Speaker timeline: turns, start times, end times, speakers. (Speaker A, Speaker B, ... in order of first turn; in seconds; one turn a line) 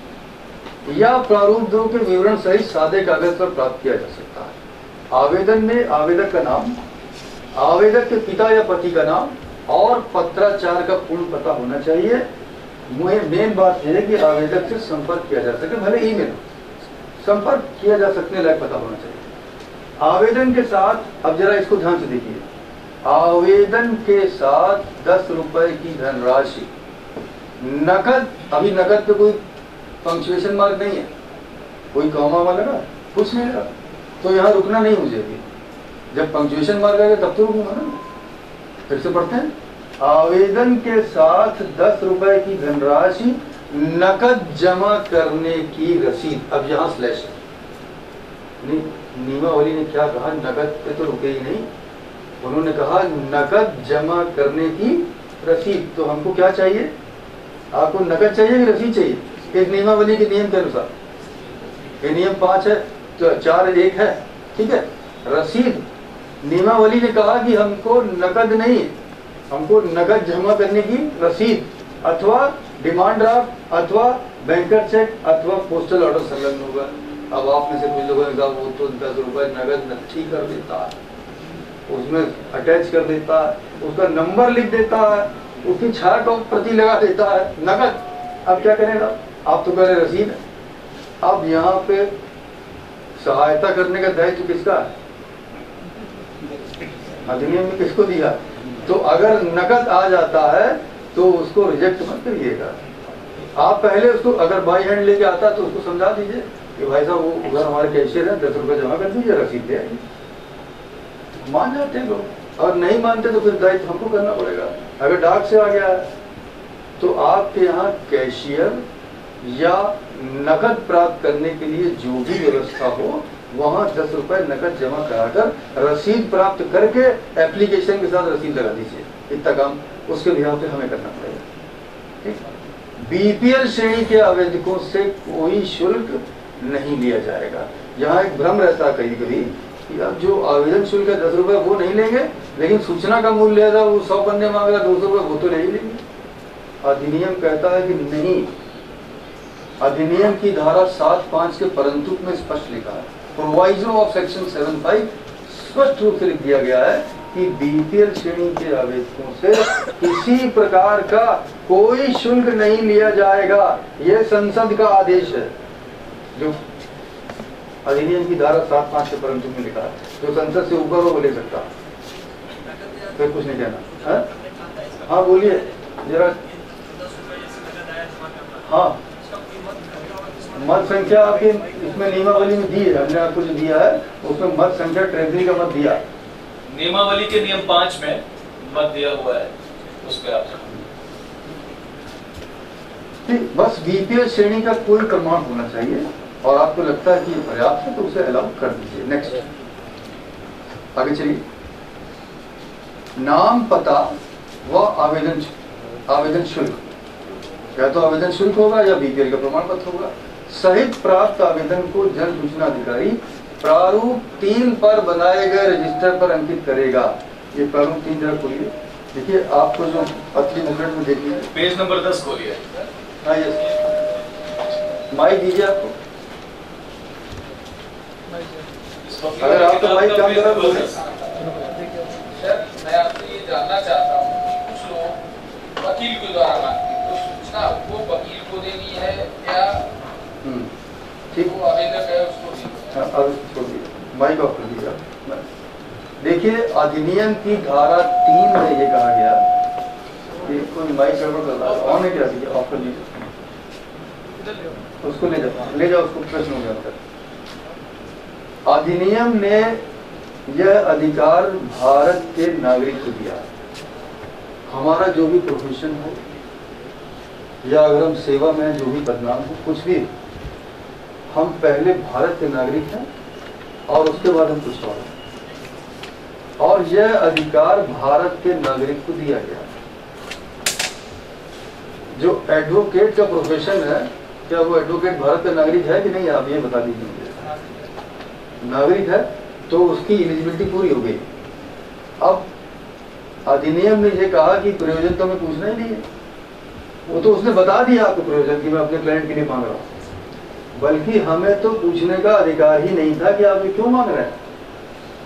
Speaker A: 0.8-4.5
Speaker A: 5.1-6.8
Speaker A: 7.5-12.2
Speaker A: 12.9-16.4
Speaker A: 17.2-19.3
Speaker A: 20.0-22.4
Speaker A: 23.0-26.7
Speaker A: 27.6-29.4
Speaker A: 30.0-31.1
Speaker A: 31.9-33.7
Speaker A: 34.2-35.4
Speaker A: 36.1-38.0
Speaker A: 38.9-47.4
Speaker A: 48.6-51.7
Speaker A: 52.4-56.9
Speaker A: 57.7-60.9
Speaker A: 62.0-65.8
Speaker A: 66.4-68.9
Speaker A: 69.5-81.0
Speaker A: 81.9-90.4
Speaker A: 91.2-92.1
Speaker A: 93.2-94.9
Speaker A: 97.2-102.8
Speaker A: 103.5-110.0
Speaker A: 111.4-116.1
Speaker A: 117.0-118.8
Speaker A: 119.4-131.5
Speaker A: 133.0-146.0
Speaker A: 146.8-148.5
Speaker A: 149.8-165.5
Speaker A: 167.8-171.7
Speaker A: 173.2-174.3
Speaker A: 175.0-176.3
Speaker B: 177.3-178.2
Speaker A: 178.6-179.0
Speaker A: 180.5-186.0
Speaker C: 186.7-190.8
Speaker A: 193.3-199.5
Speaker A: 200.9-201.4
Speaker A: 203.2-205.5
Speaker A: 206.1-206.8
Speaker A: 207.8-221.5
Speaker C: 221.5-222.7
Speaker A: 223.2-223.7
Speaker A: 225.1-225.9
Speaker C: 229.0-231.0
Speaker A: 229.4-231.0
Speaker B: 231.0-235.2
Speaker B: 235.8-239.9
Speaker A: 240.4-240.7
Speaker A: 241.3-241.6
Speaker B: 241.5-242.9
Speaker A: 242.9-245.4
Speaker A: 246.2-249.4
Speaker A: 250.4-253.2
Speaker A: 255.0-257.0
Speaker A: 258.7-259.8
Speaker A: 260.5-263.4
Speaker A: 264.7-266.2
Speaker A: 267.6-270.1
Speaker A: 271.3-273.1
Speaker A: 273.9-275.1
Speaker A: 276.6-279.7
Speaker A: 282.2-287.4
Speaker A: 288.6-291.2
Speaker A: 292.2-292.5
Speaker A: 293.5-296.1
Speaker A: 297.1-299.9
Speaker A: 300.8-304.4